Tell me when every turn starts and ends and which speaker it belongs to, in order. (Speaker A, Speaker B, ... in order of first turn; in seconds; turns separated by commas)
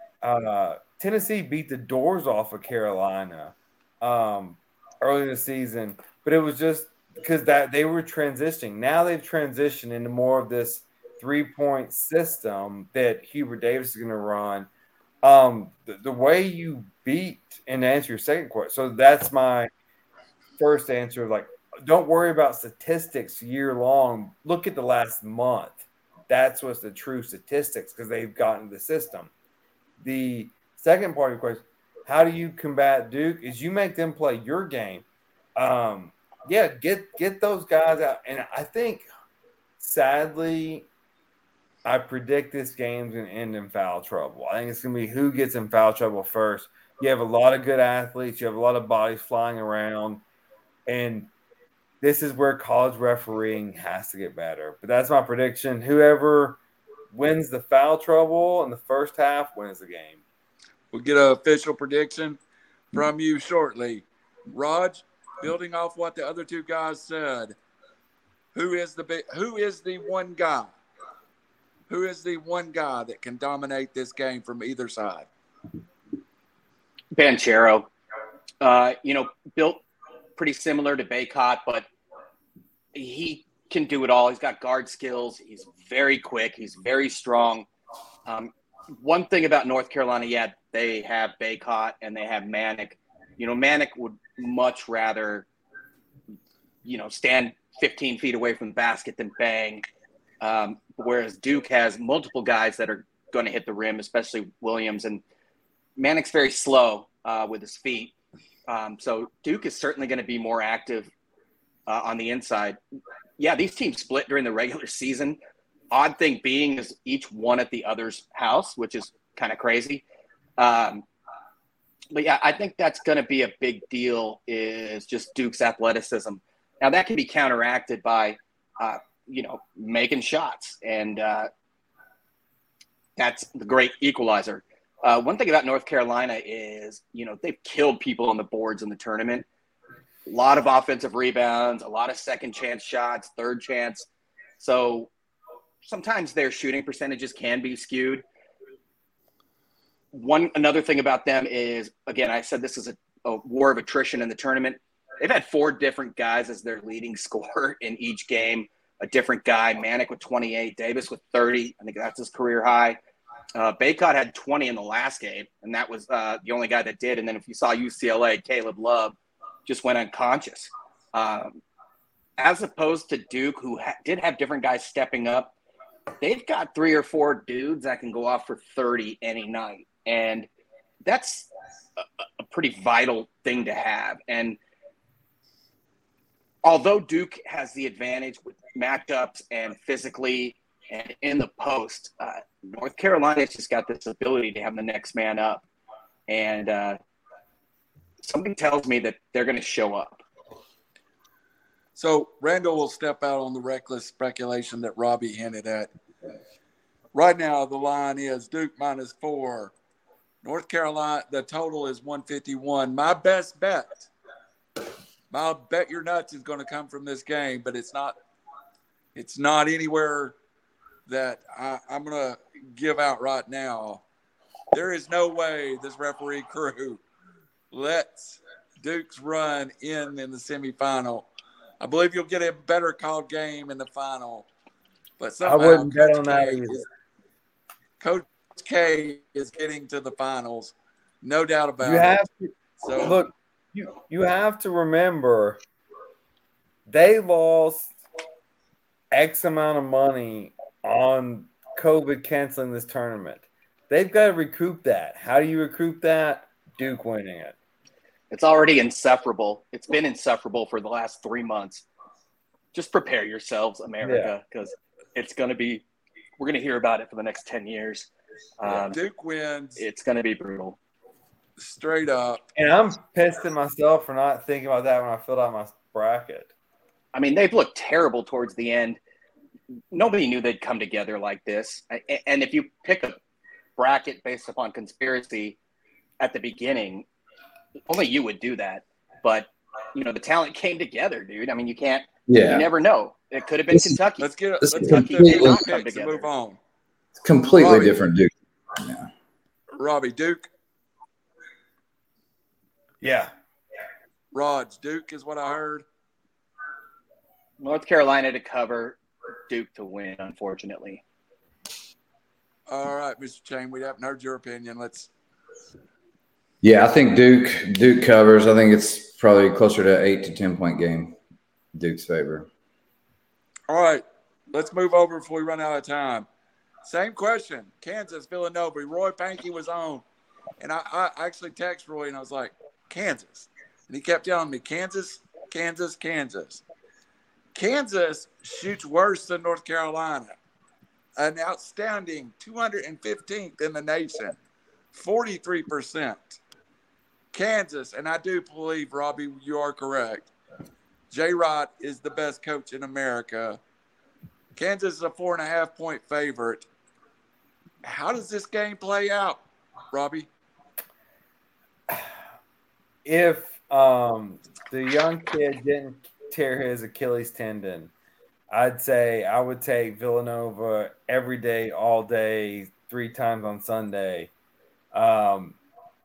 Speaker A: 0.2-14.7, Speaker A: 15.2-19.7, Speaker A: 20.6-29.3, Speaker A: 30.0-35.0, Speaker A: 35.6-39.0, Speaker A: 39.8-40.9, Speaker A: 41.9-50.2, Speaker A: 50.9-51.3, Speaker A: 52.0-56.6, Speaker A: 57.1-60.2, Speaker B: 60.9-62.4, Speaker B: 62.9-67.5, Speaker B: 68.5-70.8, Speaker B: 71.9-75.3, Speaker C: 77.1-77.9, Speaker C: 78.6-79.8, Speaker C: 80.4-81.9, Speaker C: 82.9-87.7, Speaker C: 88.3-95.5, Speaker C: 96.8-99.8, Speaker C: 100.4-105.2, Speaker C: 106.0-108.1, Speaker C: 108.7-111.1, Speaker C: 111.9-112.8, Speaker C: 113.4-115.4, Speaker C: 115.9-120.0, Speaker C: 120.6-121.0, Speaker C: 122.1-131.5, Speaker C: 133.2-139.5, Speaker C: 140.3-144.1, Speaker C: 144.6-145.1, Speaker C: 145.8-148.2, Speaker C: 150.1-163.0, Speaker C: 163.6-171.6, Speaker C: 172.4-175.5, Speaker C: 176.2-180.5, Speaker C: 181.1-184.6, Speaker C: 186.6-195.6, Speaker C: 196.3-197.0, Speaker C: 198.2-200.2, Speaker B: 201.9-205.9, Speaker B: 207.1-209.7, Speaker B: 210.4-214.1, Speaker B: 215.3-218.2, Speaker B: 219.1-220.4, Speaker B: 221.1-224.0, Speaker B: 224.7-227.0, Speaker B: 227.7-231.3, Speaker B: 231.8-234.5, Speaker B: 235.2-236.8, Speaker A: 235.4-236.9, Speaker B: 238.0-242.2, Speaker A: 241.8-245.6, Speaker B: 242.8-243.2, Speaker A: 246.9-248.0, Speaker A: 249.1-257.6, Speaker C: 258.3-261.9, Speaker C: 262.7-265.8, Speaker A: 264.0-264.3, Speaker C: 266.4-269.0, Speaker B: 268.9-269.8, Speaker C: 269.8-270.8, Speaker B: 271.6-272.4, Speaker A: 272.6-276.5, Speaker C: 277.1-279.0, Speaker C: 279.9-283.2, Speaker C: 283.8-285.6, Speaker C: 286.2-287.1, Speaker C: 287.9-296.3, Speaker D: 292.3-292.7, Speaker B: 294.2-296.6, Speaker D: 294.6-295.6, Speaker D: 297.2-299.1, Speaker B: 297.5-298.0, Speaker B: 299.8-300.5, Speaker A: 303.0-303.3, Speaker B: 304.3-305.9, Speaker C: 307.6-311.0, Speaker B: 312.7-315.1, Speaker D: 316.6-321.2, Speaker D: 321.7-322.5, Speaker B: 323.7-326.3, Speaker B: 326.8-330.0, Speaker B: 330.6-336.6, Speaker B: 337.5-340.4, Speaker B: 341.2-344.4, Speaker B: 344.9-346.4, Speaker B: 347.3-350.3, Speaker B: 351.1-353.6, Speaker B: 354.6-356.7, Speaker B: 357.8-359.4, Speaker B: 359.9-360.3, Speaker A: 363.1-367.9, Speaker A: 368.5-374.3, Speaker A: 374.9-375.6